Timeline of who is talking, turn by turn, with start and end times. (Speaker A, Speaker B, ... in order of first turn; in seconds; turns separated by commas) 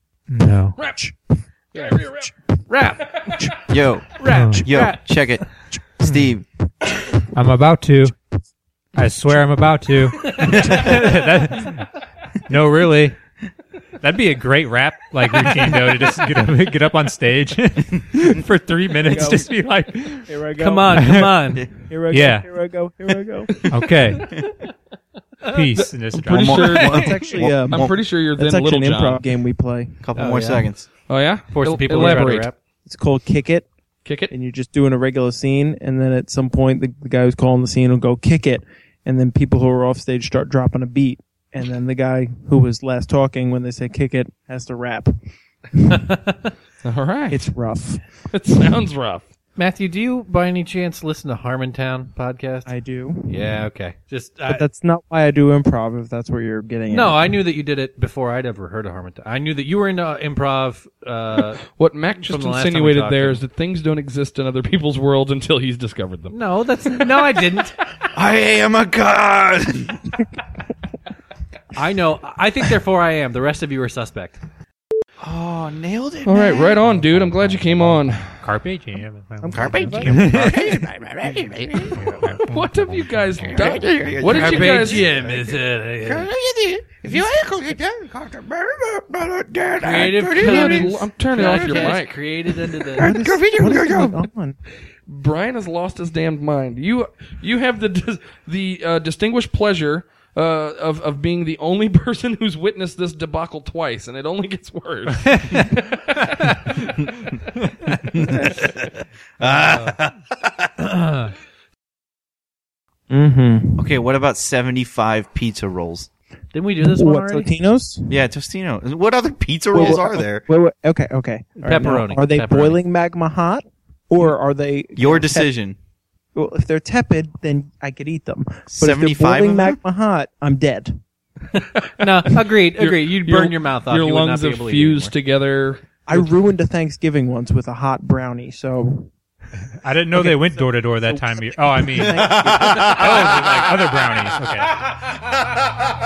Speaker A: 0.3-0.8, Speaker B: 0.8-1.1, Speaker C: 1.8-2.3, Speaker B: 1.8-2.3, Speaker D: 2.7-3.3, Speaker B: 3.4-3.6, Speaker E: 3.7-6.5, Speaker D: 4.2-5.0, Speaker A: 4.3-4.6, Speaker B: 6.0-6.3, Speaker A: 7.3-8.1, Speaker A: 8.9-11.9, Speaker E: 10.5-11.0, Speaker A: 12.5-13.2, Speaker A: 14.0-20.3, Speaker B: 19.0-19.6, Speaker B: 20.2-23.9, Speaker D: 20.6-21.7, Speaker A: 20.9-21.3, Speaker A: 22.1-22.5, Speaker A: 23.7-24.4, Speaker A: 25.5-27.1, Speaker C: 25.7-29.2, Speaker E: 26.3-28.0, Speaker B: 26.9-30.0, Speaker E: 30.0-30.9, Speaker D: 30.2-30.7, Speaker C: 31.1-32.5, Speaker D: 31.5-32.6, Speaker B: 31.9-32.3, Speaker B: 32.9-33.7, Speaker C: 34.0-34.3, Speaker B: 34.3-45.1, Speaker C: 46.8-47.5, Speaker B: 47.3-48.0, Speaker C: 48.3-49.2, Speaker D: 49.6-52.7, Speaker B: 52.7-53.6, Speaker D: 53.3-54.6, Speaker B: 54.5-57.4, Speaker D: 56.9-61.6, Speaker C: 61.7-66.4, Speaker D: 62.2-63.4, Speaker D: 66.3-67.8, Speaker E: 68.1-70.2, Speaker D: 71.7-74.4, Speaker E: 75.2-76.9, Speaker C: 76.2-78.2, Speaker A: 77.0-80.7, Speaker B: 79.4-80.6, Speaker E: 79.5-82.0, Speaker A: 81.9-83.8, Speaker C: 82.5-85.3, Speaker E: 83.5-91.0, Speaker D: 84.3-86.3, Speaker D: 89.8-93.2, Speaker C: 90.4-92.2, Speaker E: 93.0-94.2, Speaker B: 93.0-94.6, Speaker C: 95.1-106.6, Speaker E: 108.0-110.7, Speaker B: 113.1-114.0, Speaker E: 113.8-116.1, Speaker D: 116.5-117.5, Speaker B: 116.8-118.2, Speaker E: 118.1-120.5, Speaker B: 119.7-125.5, Speaker D: 121.6-122.8, Speaker E: 125.0-125.8, Speaker B: 126.3-131.0, Speaker E: 128.7-129.8, Speaker C: 131.6-136.3, Speaker D: 132.0-135.1, Speaker B: 136.1-139.1, Speaker A: 139.8-144.8, Speaker B: 140.1-143.8, Speaker E: 141.9-143.4